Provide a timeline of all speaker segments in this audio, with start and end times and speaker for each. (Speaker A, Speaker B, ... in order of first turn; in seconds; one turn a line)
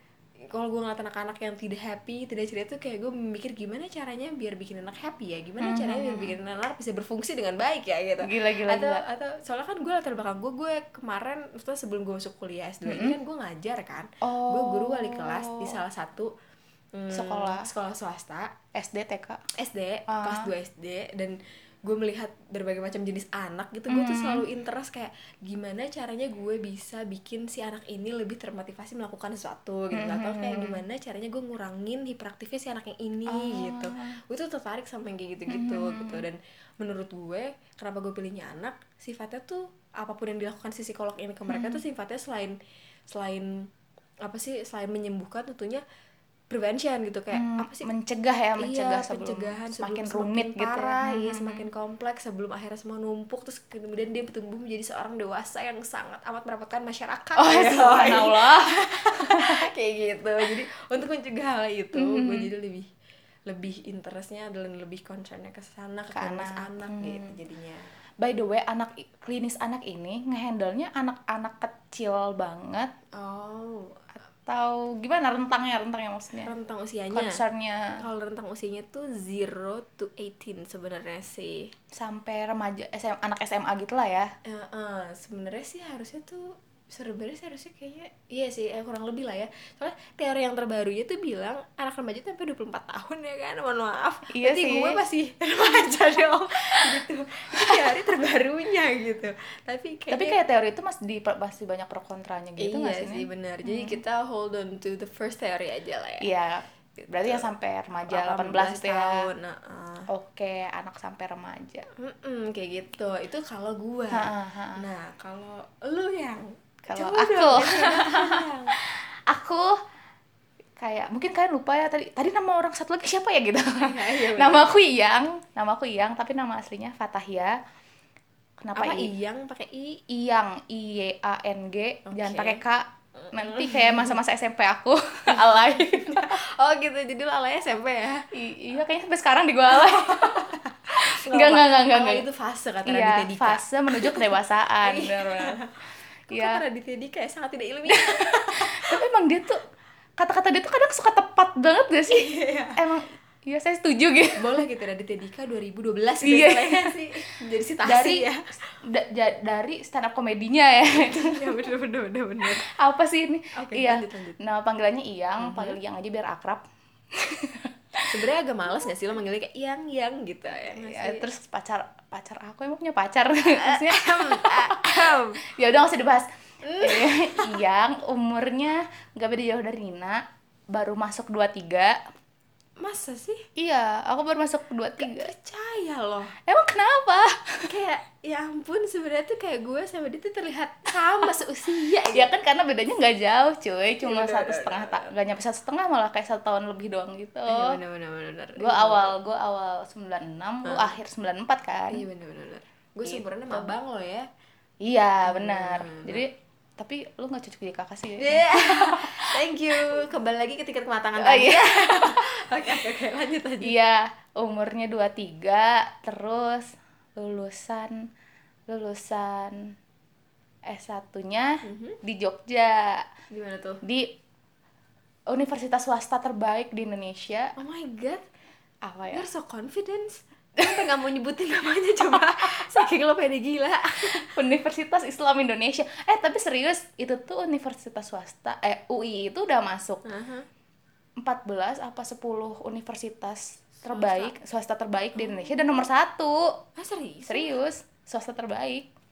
Speaker A: 0.5-16.3
Speaker B: 5.6-6.3
Speaker B: 8.2-9.0
Speaker B: 12.8-13.2
Speaker B: 14.2-15.8
Speaker A: 16.9-18.5
Speaker B: 17.1-17.7
Speaker B: 18.8-19.4
Speaker A: 19.5-42.6
Speaker B: 20.1-20.5
Speaker B: 23.9-24.4
Speaker B: 29.9-30.8
Speaker B: 33.3-34.2
Speaker B: 35.5-36.2
Speaker B: 41.5-41.8
Speaker A: 43.1-43.7
Speaker A: 44.2-45.8
Speaker A: 46.5-47.9
Speaker B: 47.3-51.7
Speaker A: 48.6-62.9
Speaker B: 57.4-59.6
Speaker B: 61.9-62.5
Speaker A: 63.5-67.9
Speaker B: 66.1-67.3
Speaker B: 68.2-72.9
Speaker A: 73.2-74.0
Speaker B: 74.5-76.5
Speaker A: 76.4-77.4
Speaker B: 77.1-78.0
Speaker A: 78.0-81.7
Speaker B: 82.0-84.3
Speaker A: 84.5-100.4
Speaker B: 94.3-95.0
Speaker B: 97.6-97.9
Speaker B: 100.1-104.0
Speaker A: 102.6-106.3
Speaker B: 106.2-109.3
Speaker A: 107.2-107.5
Speaker A: 108.0-110.1
Speaker B: 110.1-111.9
Speaker A: 112.0-118.7
Speaker B: 114.1-114.8
Speaker B: 116.9-119.7
Speaker B: 120.8-127.6
Speaker A: 123.8-124.7
Speaker B: 128.6-129.1
Speaker A: 128.8-130.0
Speaker B: 130.1-136.4
Speaker A: 132.1-132.6
Speaker A: 133.2-134.2
Speaker A: 135.3-138.2
Speaker B: 138.3-142.2
Speaker A: 139.7-145.7
Speaker B: 142.9-145.6
Speaker B: 146.3-146.6
Speaker A: 146.3-149.0
Speaker B: 147.9-149.6
Speaker B: 150.2-154.6
Speaker A: 152.1-152.8
Speaker A: 154.4-158.5
Speaker B: 156.2-157.0
Speaker B: 157.8-158.3
Speaker B: 158.8-161.7
Speaker A: 160.9-162.6
Speaker B: 162.6-166.6
Speaker A: 163.6-164.4
Speaker A: 165.4-165.8
Speaker B: 167.2-168.1
Speaker A: 168.1-171.3
Speaker B: 170.7-182.0
Speaker A: 173.5-175.4
Speaker A: 176.6-177.6
Speaker A: 182.8-183.5
Speaker B: 183.6-185.3
Speaker A: 185.0-186.3
Speaker B: 186.5-187.7
Speaker A: 187.7-192.3
Speaker B: 192.1-197.8
Speaker A: 194.0-195.1
Speaker A: 197.5-199.1
Speaker B: 198.6-202.1
Speaker A: 200.7-200.9
Speaker A: 201.9-204.3
Speaker B: 203.1-203.7
Speaker B: 204.8-209.3
Speaker A: 205.3-206.2
Speaker A: 208.2-213.8
Speaker B: 211.2-212.2
Speaker B: 213.6-218.1
Speaker B: 218.7-219.7
Speaker B: 220.7-223.1
Speaker A: 221.6-222.0
Speaker A: 223.3-223.8
Speaker B: 223.8-224.2
Speaker B: 225.3-227.5
Speaker A: 227.6-228.3
Speaker B: 228.8-229.3
Speaker A: 229.1-234.3
Speaker B: 230.6-230.9
Speaker B: 232.4-232.8
Speaker B: 234.1-240.0
Speaker A: 240.1-240.5
Speaker B: 241.2-246.6
Speaker A: 243.8-244.3
Speaker A: 245.2-245.8
Speaker A: 246.8-247.6
Speaker B: 247.3-248.9